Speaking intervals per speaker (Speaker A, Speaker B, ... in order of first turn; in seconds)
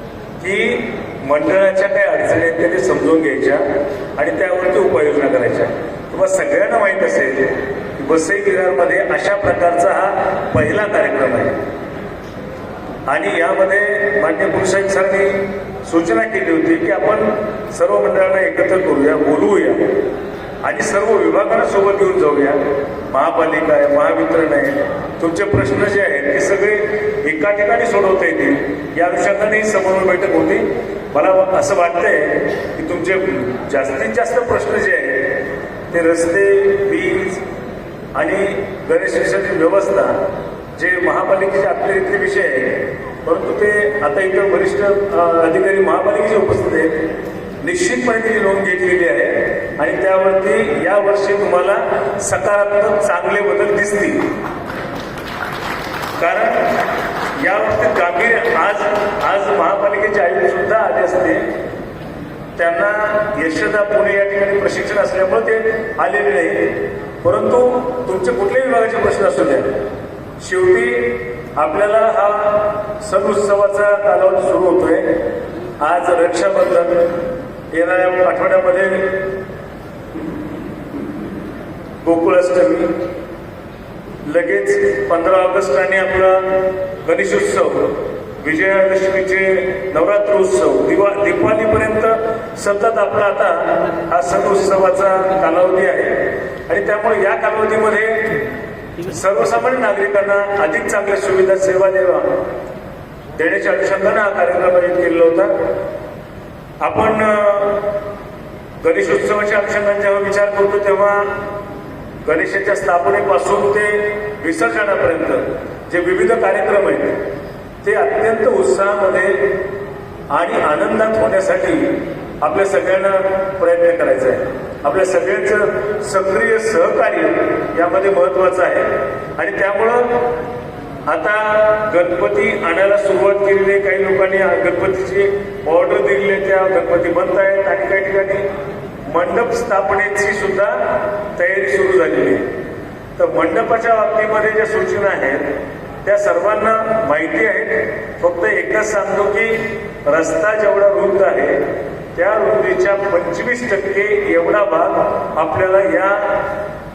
Speaker A: 0.4-3.6, 4.2-11.6, 13.1-19.9, 20.6-37.4, 38.1-40.2, 40.8-47.0, 47.6-54.3, 56.2-56.8, 57.4-61.5, 62.6-69.8, 70.4-75.2, 75.8-77.1, 77.7-79.2, 82.0-82.9, 84.2-98.3, 99.0-102.3, 103.4-105.5, 106.8-107.9, 108.8-111.4, 112.2-117.2, 117.8-119.5, 120.3-130.3, 131.1-138.5, 139.1-142.4, 143.2-145.5, 146.0-151.6, 152.2-156.5